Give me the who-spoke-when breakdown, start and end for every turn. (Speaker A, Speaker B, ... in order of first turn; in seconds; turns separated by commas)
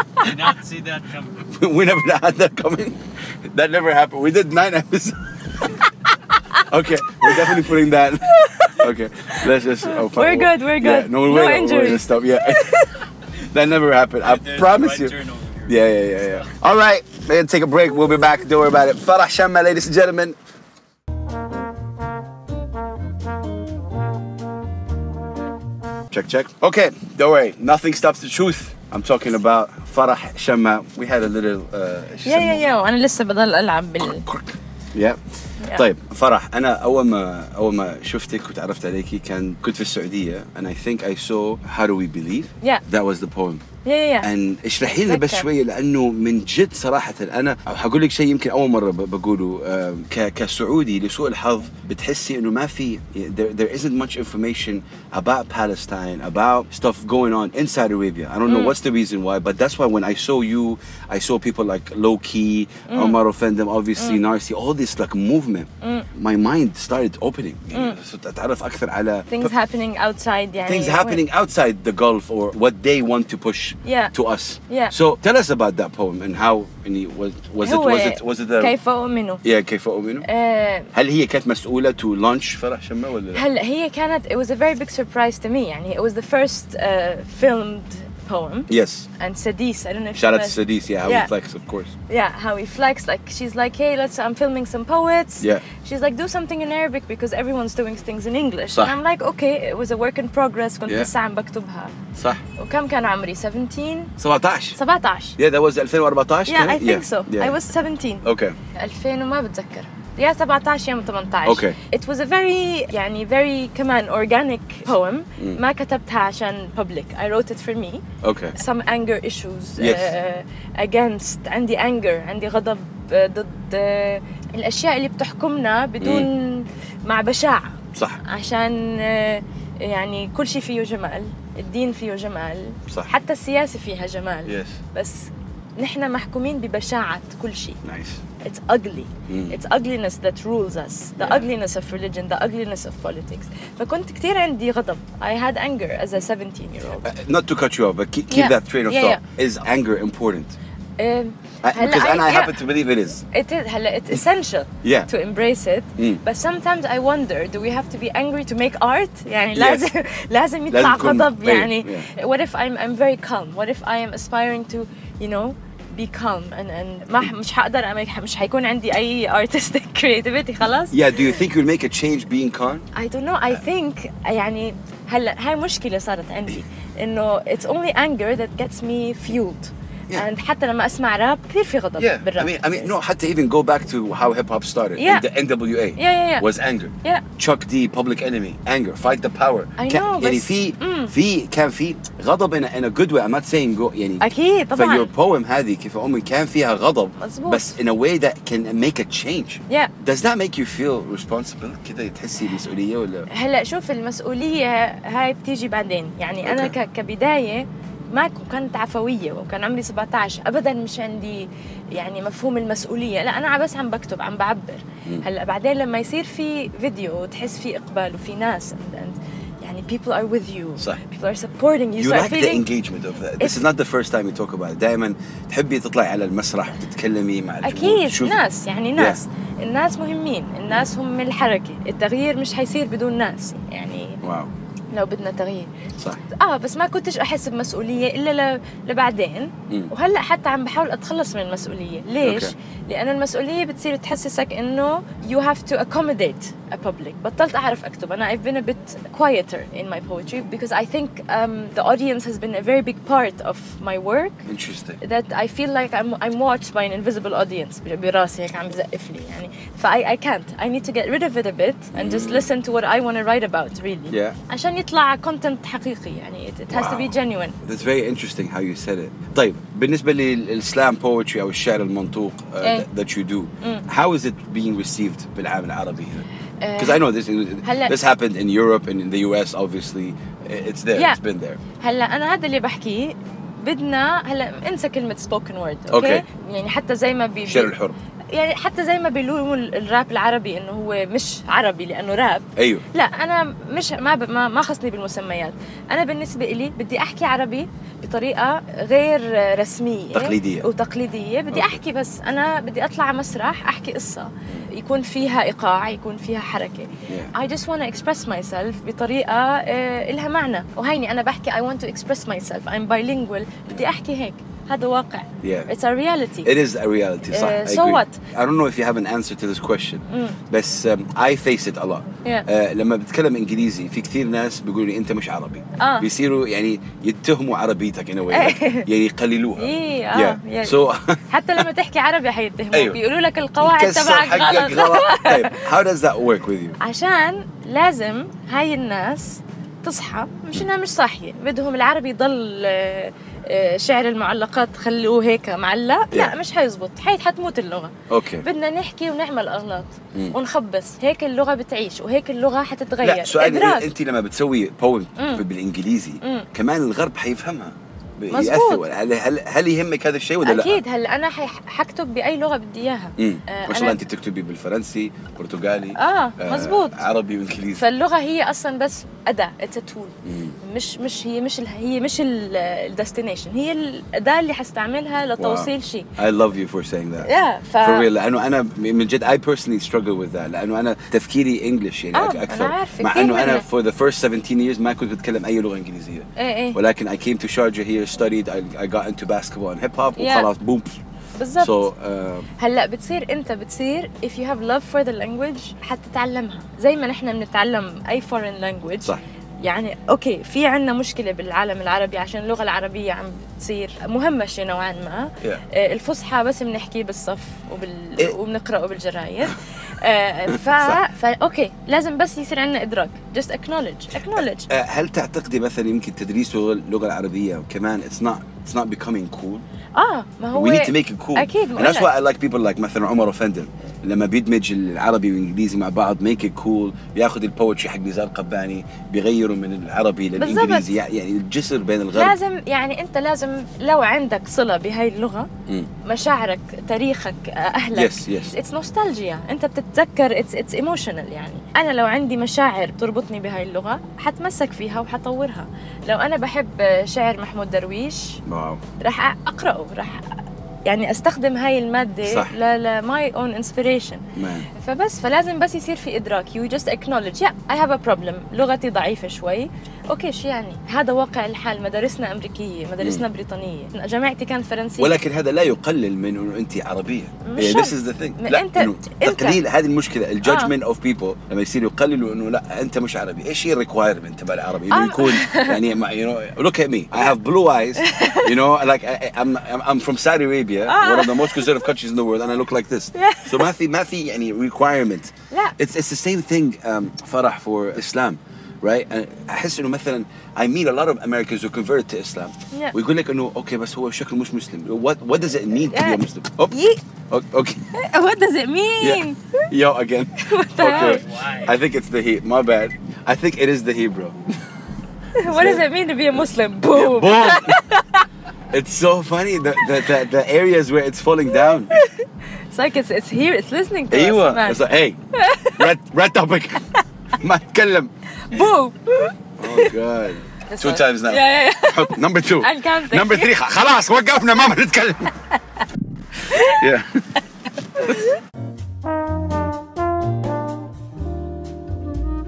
Speaker A: 0.2-1.4, Speaker B: 1.4-5.8, Speaker B: 6.5-20.4, Speaker C: 7.2-7.7, Speaker C: 8.3-13.0, Speaker A: 14.2-16.5, Speaker B: 26.1-32.7, Speaker C: 32.2-34.2, Speaker B: 34.0-35.2, Speaker C: 35.6-35.9, Speaker B: 35.7-43.6, Speaker C: 43.9-44.3, Speaker B: 44.2-69.5, Speaker C: 44.9-45.5, Speaker C: 58.5-58.8, Speaker C: 62.9-63.2, Speaker C: 65.8-66.1, Speaker C: 67.7-68.0, Speaker C: 69.3-71.2, Speaker B: 70.7-78.7, Speaker C: 73.8-74.1, Speaker C: 74.7-75.0, Speaker C: 77.6-79.4, Speaker B: 79.4-80.3, Speaker C: 80.3-80.9, Speaker B: 80.9-83.5, Speaker C: 83.3-91.3, Speaker B: 88.7-89.1, Speaker B: 90.2-91.9, Speaker C: 92.1-101.9, Speaker B: 95.4-95.7, Speaker B: 102.2-102.4, Speaker C: 102.6-104.1, Speaker B: 104.2-104.8, Speaker C: 104.8-105.4, Speaker B: 105.4-107.6, Speaker C: 106.5-118.0, Speaker B: 108.2-108.6, Speaker B: 111.5-111.8, Speaker B: 118.2-118.6, Speaker C: 118.5-137.8, Speaker B: 119.8-120.1, Speaker B: 126.0-126.3, Speaker B: 128.0-128.2, Speaker B: 134.5-134.8, Speaker B: 137.8-138.2, Speaker C: 138.4-147.1, Speaker B: 139.3-139.6, Speaker B: 141.2-141.5, Speaker B: 147.0-150.6, Speaker C: 148.3-149.2, Speaker C: 151.0-152.6, Speaker B: 151.6-153.2, Speaker C: 153.3-171.4, Speaker B: 154.8-155.1, Speaker B: 156.0-156.2, Speaker B: 159.6-159.8, Speaker B: 160.7-162.1, Speaker B: 170.9-172.9, Speaker C: 172.9-182.9, Speaker B: 182.0-203.3, Speaker C: 185.0-185.2, Speaker C: 186.0-186.5, Speaker C: 189.8-191.1, Speaker C: 194.2-195.1, Speaker C: 197.2-197.8, Speaker C: 203.3-222.7, Speaker B: 206.4-206.7, Speaker B: 222.0-228.4, Speaker C: 223.4-223.7, Speaker C: 227.6-234.2, Speaker B: 234.2-234.5, Speaker C: 234.9-235.7, Speaker C: 236.3-254.4, Speaker B: 242.2-242.5, Speaker B: 254.5-255.0, Speaker C: 255.0-267.6, Speaker B: 261.9-262.5, Speaker B: 264.1-264.4, Speaker B: 266.7-276.3, Speaker C: 276.6-277.1, Speaker B: 276.8-281.6, Speaker C: 277.6-277.9, Speaker C: 280.9-281.2, Speaker C: 281.8-287.7, Speaker B: 285.9-286.2, Speaker B: 287.4-288.0, Speaker C: 288.3-316.5, Speaker B: 292.6-292.9, Speaker B: 300.1-300.7, Speaker B: 301.5-301.8, Speaker B: 315.4-315.7, Speaker B: 316.4-331.6, Speaker C: 317.3-318.2, Speaker C: 320.1-320.4, Speaker C: 325.8-326.1, Speaker C: 328.3-328.9, Speaker C: 329.6-335.7, Speaker B: 332.7-333.0, Speaker B: 333.6-336.8, Speaker C: 336.8-353.9, Speaker B: 348.1-348.5, Speaker B: 353.0-360.8, Speaker C: 355.2-355.4, Speaker C: 356.2-356.5, Speaker C: 358.3-358.9, Speaker C: 360.4-364.0, Speaker B: 363.2-367.9, Speaker C: 365.9-367.0, Speaker C: 367.8-376.1, Speaker B: 370.2-370.6, Speaker B: 375.4-377.3, Speaker C: 377.2-378.1, Speaker B: 377.8-391.0, Speaker C: 382.1-383.7, Speaker C: 386.4-386.8, Speaker C: 390.2-390.5, Speaker C: 391.4-391.8, Speaker B: 391.6-392.5, Speaker C: 392.6-414.7, Speaker B: 410.5-411.0, Speaker B: 414.4-419.6, Speaker C: 420.0-422.1, Speaker B: 420.5-432.4, Speaker C: 430.4-430.9, Speaker C: 432.1-435.5, Speaker C: 436.0-448.4, Speaker B: 437.9-438.5, Speaker B: 448.4-448.8, Speaker C: 449.0-465.2, Speaker B: 452.2-452.5, Speaker B: 454.4-454.7, Speaker B: 465.0-496.8, Speaker C: 467.4-469.6, Speaker C: 470.4-470.7, Speaker C: 474.9-475.8, Speaker C: 478.0-478.6, Speaker C: 480.9-481.8, Speaker C: 483.1-483.7, Speaker C: 495.9-497.0, Speaker B: 497.3-497.8, Speaker C: 497.9-499.7, Speaker B: 499.0-504.4, Speaker C: 500.4-501.2, Speaker A: 501.0-501.7, Speaker C: 505.4-508.3, Speaker B: 505.4-505.9, Speaker B: 506.9-507.8, Speaker B: 508.7-512.0, Speaker C: 511.6-514.8, Speaker B: 514.1-518.1, Speaker C: 515.3-515.9, Speaker C: 518.5-519.9, Speaker B: 519.6-525.4, Speaker C: 520.7-523.5, Speaker C: 526.5-526.9, Speaker B: 526.5-527.3, Speaker C: 528.0-528.4